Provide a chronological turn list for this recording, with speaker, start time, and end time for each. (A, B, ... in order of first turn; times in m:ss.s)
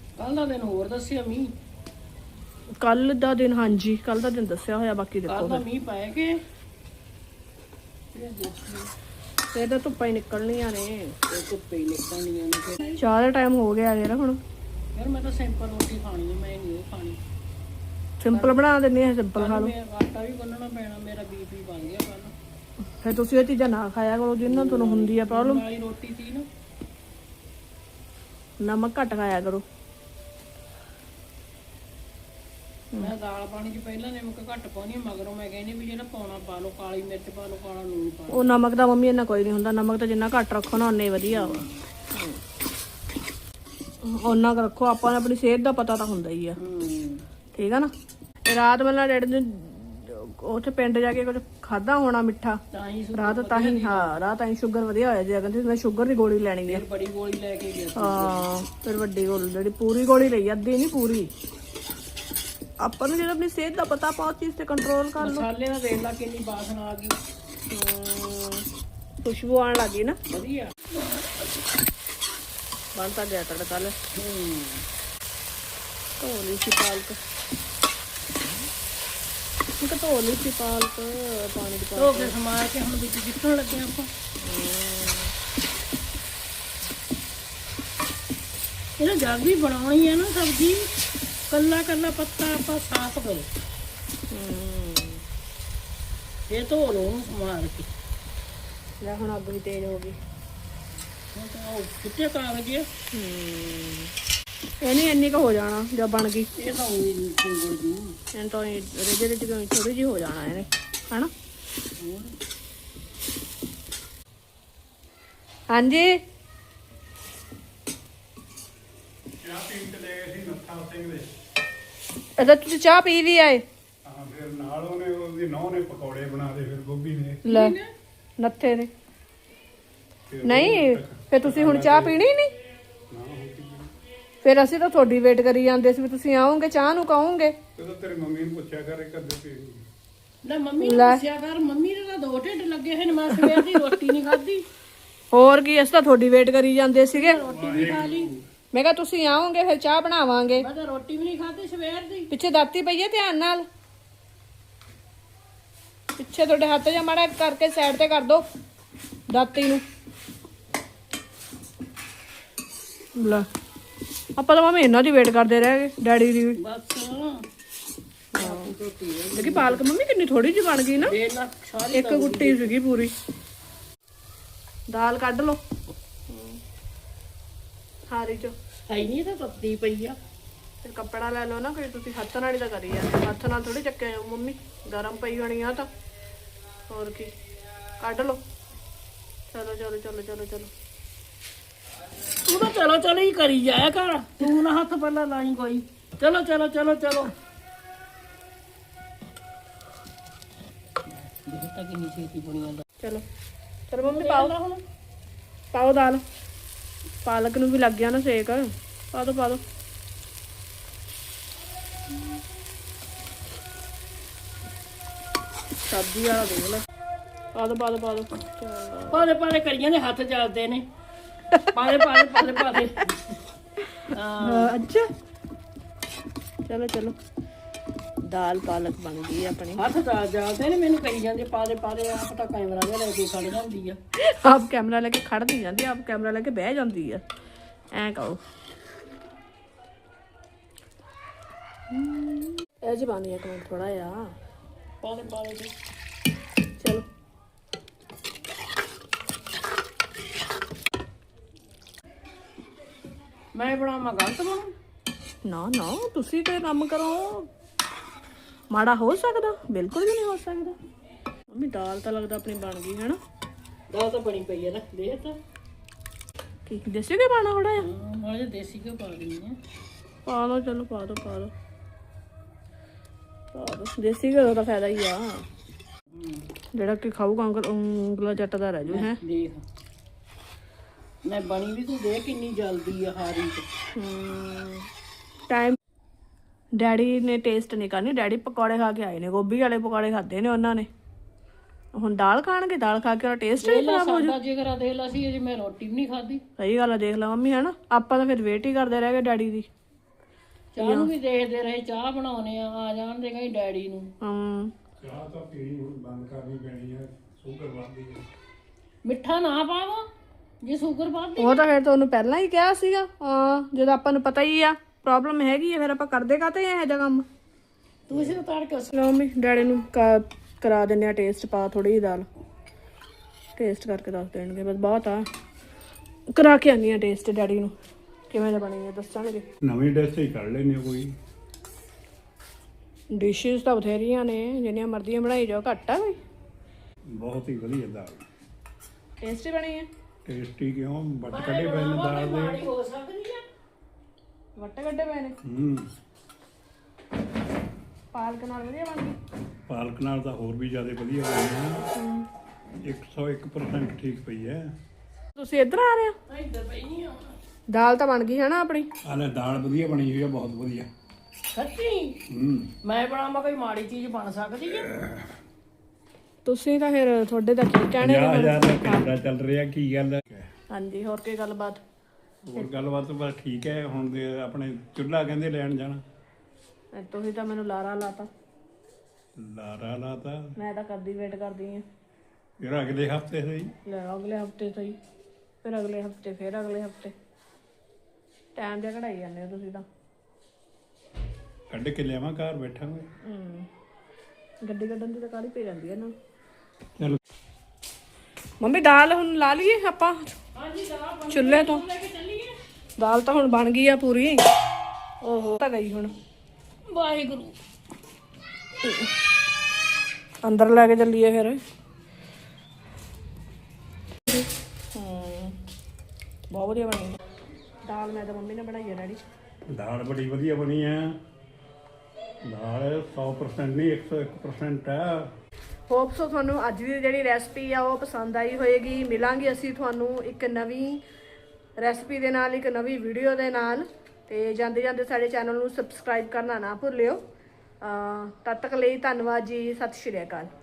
0:00.2-0:01.5 A
0:02.8-0:05.6 B
0:05.3-0:06.4 A
0:08.1-0:08.9 A
0:09.5-0:11.2 B
0:11.3-0:13.0 A
0:13.0-0:14.4 B
0:15.0-0:17.2 A
0:18.2-0:19.7 B
0:18.3-0:18.6 A
0:19.4-0:22.3 A
0:23.0-0:25.6 B
0:24.5-0:26.5 A
0:28.6-0:29.6 B
0:33.0-0:38.4 A
0:38.3-0:42.4 B
0:41.3-0:41.8 A
0:44.0-0:46.6 B
0:46.6-0:47.2 A
0:47.5-0:47.9 B
0:48.5-0:52.6 B
0:52.7-0:54.1 A
0:53.1-0:56.8 B
0:56.7-0:58.5 A
0:58.0-1:01.3 B
1:02.8-1:05.5 B
1:05.2-1:07.2 A
1:07.7-1:08.6 B
1:09.2-1:10.2 B
1:10.3-1:11.1 A
1:13.0-1:14.0 B
1:14.2-1:14.8 A
1:16.2-1:17.2 B
1:19.8-1:22.3 B
1:22.0-1:24.1 A
1:24.4-1:25.3 B
1:29.0-1:30.9 A
1:31.5-1:33.5 A
1:34.3-1:35.2 B
1:36.5-1:37.9 A
1:39.0-1:40.2 B
1:41.3-1:42.9 A
1:43.1-1:44.1 B
1:44.8-1:46.5 B
1:46.6-1:48.2 A
1:48.3-1:51.3 B
1:52.0-1:52.3 A
1:55.7-1:56.2 B
1:59.4-2:01.3 C
2:02.4-2:03.6 B
2:04.0-2:07.4 C
2:07.4-2:07.8 B
2:07.5-2:07.9 A
2:08.4-2:08.9 B
2:10.3-2:12.2 C
2:10.4-2:12.5 B
2:13.1-2:13.9 C
2:14.4-2:17.6 B
2:17.8-2:19.8 C
2:20.4-2:24.6 A
2:20.8-2:21.2 B
2:23.3-2:24.0 B
2:25.3-2:27.4 B
2:27.1-2:28.3 A
2:27.4-2:28.4 C
2:28.7-2:30.6 B
2:30.6-2:32.3 A
2:32.3-2:33.7 B
2:36.2-2:38.4 B
2:39.3-2:39.8 B
2:43.2-2:43.5 B
2:44.4-2:46.6 B
2:46.6-2:47.4 A
2:48.4-2:48.7 B
2:48.4-2:49.8 A
2:49.3-2:51.2 B
2:51.0-2:52.8 A
2:51.9-2:53.1 B
2:54.9-2:55.6 B
2:56.3-2:56.6 B
2:58.1-2:58.5 B
2:58.9-3:00.2 A
3:00.8-3:05.9 B
3:06.9-3:07.3 B
3:08.0-3:08.4 B
3:09.5-3:10.7 B
3:12.4-3:17.3 A
3:21.1-3:22.8 A
3:23.9-3:24.5 B
3:24.0-3:24.8 A
3:25.7-3:26.2 B
3:27.2-3:29.6 B
3:35.9-3:36.8 B
3:37.5-3:39.3 B
3:39.1-3:40.8 A
3:41.7-3:43.4 A
3:44.1-3:44.7 A
3:44.4-3:45.1 B
3:46.7-3:47.2 B
3:48.3-3:49.8 B
3:49.8-3:54.0 A
3:54.2-3:57.2 B
3:58.0-3:58.4 B
4:01.9-4:04.3 B
4:05.0-4:05.7 A
4:06.8-4:07.1 B
4:13.6-4:14.8 A
4:15.4-4:17.5 B
4:18.7-4:20.8 B
4:21.5-4:23.2 B
4:23.9-4:25.4 A
4:26.7-4:27.8 B
4:27.8-4:29.6 A
4:30.3-4:31.5 B
4:33.5-4:35.4 B
4:36.1-4:36.5 A
4:36.8-4:39.2 B
4:38.8-4:39.6 A
4:41.3-4:43.7 A
4:44.0-4:44.9 B
4:45.5-4:45.8 B
4:46.8-4:50.9 B
4:52.0-4:54.4 B
4:53.6-4:56.4 A
4:56.6-4:59.7 B
5:00.8-5:04.1 A
5:00.8-5:01.1 B
5:04.2-5:04.7 B
5:05.0-5:08.2 C
5:09.1-5:10.1 A
5:10.6-5:11.6 A
5:11.4-5:17.3 B
5:18.1-5:18.9 A
5:18.9-5:22.3 B
5:23.6-5:25.3 B
5:26.4-5:27.7 B
5:28.3-5:29.4 B
5:29.6-5:31.1 C
5:33.1-5:36.2 B
5:37.2-5:38.2 C
5:39.2-5:39.9 B
5:40.3-5:42.7 C
5:41.3-5:43.4 A
5:44.6-5:45.4 B
5:45.4-5:45.9 C
5:48.1-5:49.2 B
5:49.7-5:51.8 C
5:52.0-5:52.3 B
5:52.8-5:54.6 C
5:55.4-5:56.2 B
5:56.3-5:57.4 A
5:57.7-5:58.9 B
5:59.0-6:00.9 C
6:01.5-6:02.2 A
6:02.3-6:02.7 C
6:02.8-6:04.9 A
6:04.9-6:05.3 C
6:06.4-6:09.1 B
6:08.0-6:10.5 C
6:10.7-6:11.8 B
6:12.4-6:16.0 C
6:17.0-6:18.3 B
6:19.4-6:20.5 C
6:20.6-6:21.8 B
6:22.6-6:23.7 C
6:23.9-6:25.0 B
6:25.6-6:27.1 B
6:28.6-6:29.8 B
6:31.7-6:33.1 C
6:33.2-6:33.7 B
6:34.6-6:36.1 B
6:38.6-6:40.3 B
6:40.6-6:42.6 A
6:41.3-6:41.8 B
6:43.0-6:44.4 B
6:45.2-6:46.1 B
6:46.9-6:47.6 A
6:50.5-6:51.6 B
6:55.0-6:55.6 B
6:56.5-6:57.2 B
6:57.9-6:59.2 B
6:59.7-7:01.2 C
7:02.4-7:05.3 C
7:05.9-7:11.0 B
7:11.8-7:17.2 B
7:17.8-7:20.5 B